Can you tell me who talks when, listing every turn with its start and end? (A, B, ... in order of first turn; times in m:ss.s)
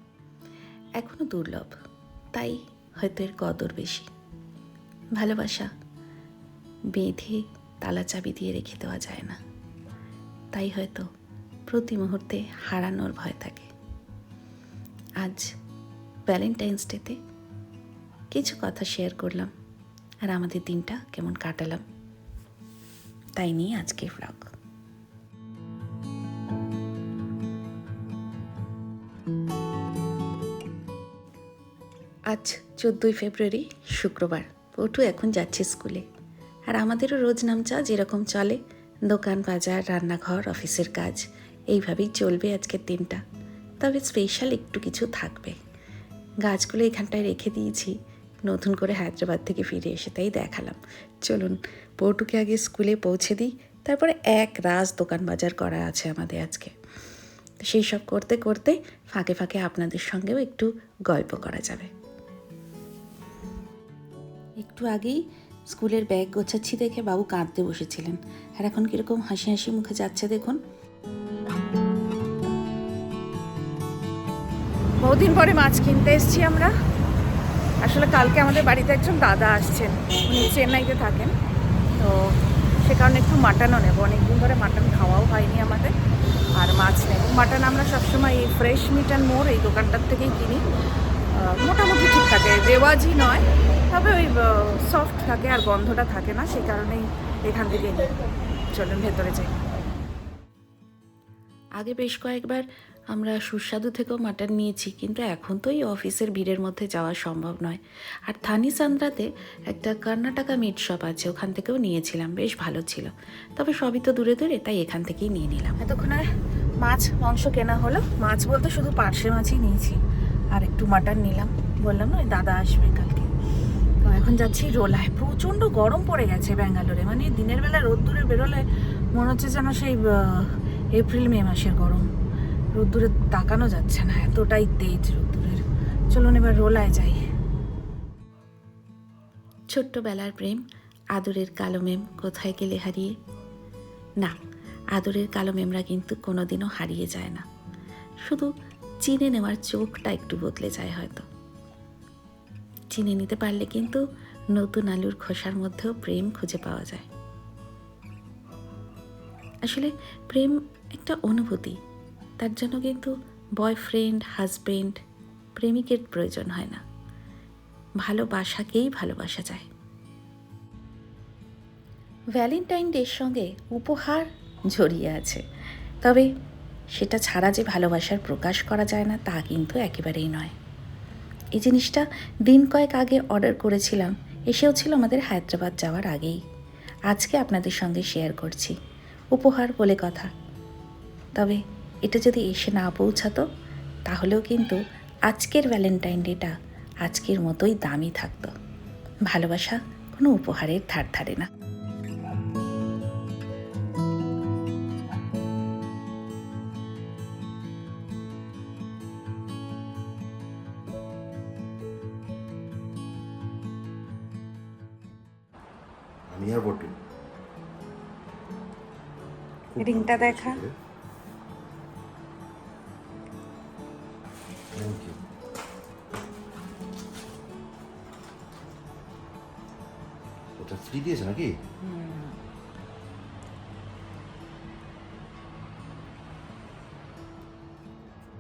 0:01.0-0:01.7 A
0:02.3-0:04.1 A
0:05.2-0:05.7 A
0:06.9-0:09.4 A
0:10.5-0:11.1 A
0:11.7-0:13.7 A
0:15.2-0:15.5 A
0:16.3-0:17.2 A
0:18.3-0:19.5 A
0:20.3-0:21.8 A
0:23.4-0:24.5 A
0:32.3-0:36.0 A
0:36.7-0:43.2 A
0:43.8-0:45.6 A
0:46.4-0:56.7 A
0:57.6-1:01.9 A
1:04.6-1:10.6 A
1:15.0-1:16.7 B
1:17.8-1:21.3 B
1:22.0-1:25.9 B
1:26.6-1:30.6 B
1:31.3-1:38.1 B
1:38.7-1:39.5 B
1:41.8-1:55.9 A
1:55.9-1:56.3 B
1:56.8-2:00.0 B
2:00.5-2:03.3 B
2:04.0-2:12.1 B
2:12.8-2:17.2 B
2:19.7-2:20.6 A
2:21.1-2:23.2 A
2:24.9-2:27.4 A
2:28.2-2:31.3 A
2:32.9-2:37.1 A
2:39.6-2:41.8 A
2:42.4-2:45.0 A
2:45.6-2:46.8 A
2:48.0-2:49.7 A
2:52.4-2:55.4 A
2:56.0-2:56.3 A
2:56.9-3:00.5 A
3:01.6-3:06.4 A
3:07.1-3:08.8 A
3:09.3-3:10.3 A
3:11.4-3:13.4 A
3:14.1-3:18.5 A
3:19.3-3:21.5 A
3:36.3-3:36.9 C
3:39.7-3:40.7 C
3:39.8-3:40.6 B
3:44.7-3:45.2 C
3:50.6-3:51.6 C
3:51.9-3:52.3 B